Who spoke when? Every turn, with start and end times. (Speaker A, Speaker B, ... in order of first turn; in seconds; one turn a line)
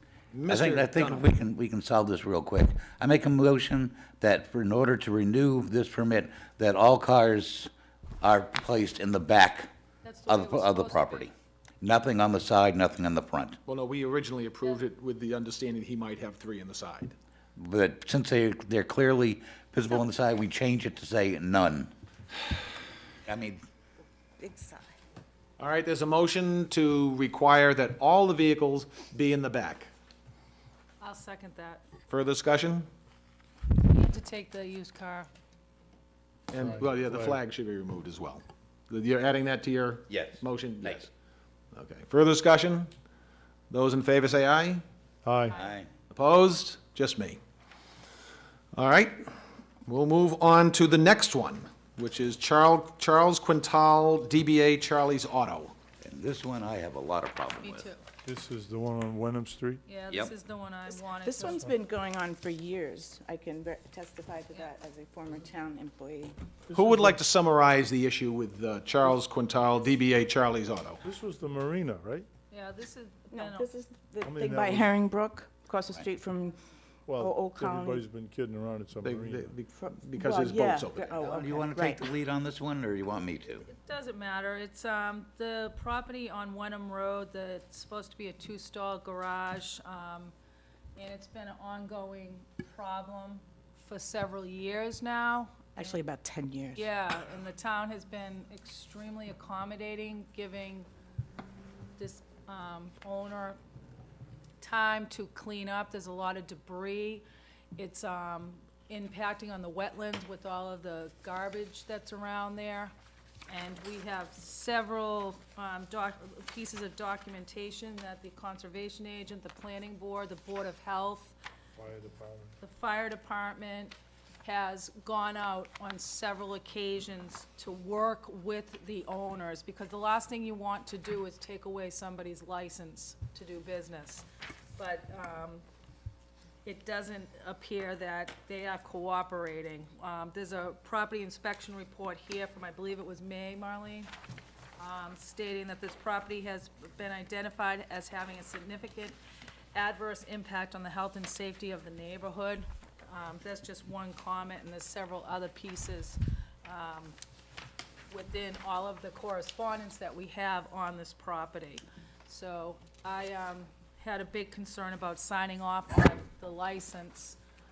Speaker A: 0.3-1.3
Speaker B: 0.5-7.7
Speaker B: 8.2-9.7
Speaker C: 10.0-11.3
Speaker B: 10.3-13.6
Speaker A: 13.6-17.1
Speaker B: 17.6-21.9
Speaker B: 23.2-23.6
Speaker D: 24.4-24.9
Speaker A: 25.6-29.9
Speaker C: 31.0-31.9
Speaker A: 32.1-32.9
Speaker C: 33.8-35.3
Speaker A: 36.5-41.1
Speaker E: 36.5-37.4
Speaker B: 40.1-41.1
Speaker A: 41.7-42.9
Speaker A: 43.7-44.8
Speaker E: 45.2-45.6
Speaker B: 45.5-45.9
Speaker A: 46.1-47.4
Speaker A: 48.7-49.3
Speaker A: 49.9-55.7
Speaker B: 56.0-57.9
Speaker C: 57.6-58.0
Speaker E: 58.2-59.8
Speaker C: 59.9-61.6
Speaker D: 61.1-66.3
Speaker E: 61.4-61.7
Speaker E: 66.7-67.2
Speaker A: 66.7-71.0
Speaker E: 71.0-72.3
Speaker C: 72.5-73.7
Speaker D: 73.3-76.6
Speaker E: 74.2-74.9
Speaker E: 77.1-79.5
Speaker D: 77.2-78.0
Speaker A: 79.0-81.2
Speaker D: 79.8-82.0
Speaker B: 81.2-83.7
Speaker C: 83.7-90.3
Speaker C: 91.0-95.9
Speaker D: 95.8-96.9
Speaker C: 96.8-100.9
Speaker C: 102.0-103.6
Speaker C: 104.6-112.9
Speaker C: 113.5-121.3
Speaker E: 121.8-122.6
Speaker C: 122.6-134.2
Speaker C: 134.8-135.6
Speaker C: 136.6-144.1
Speaker C: 144.8-149.2
Speaker C: 149.7-157.2
Speaker C: 158.1-167.4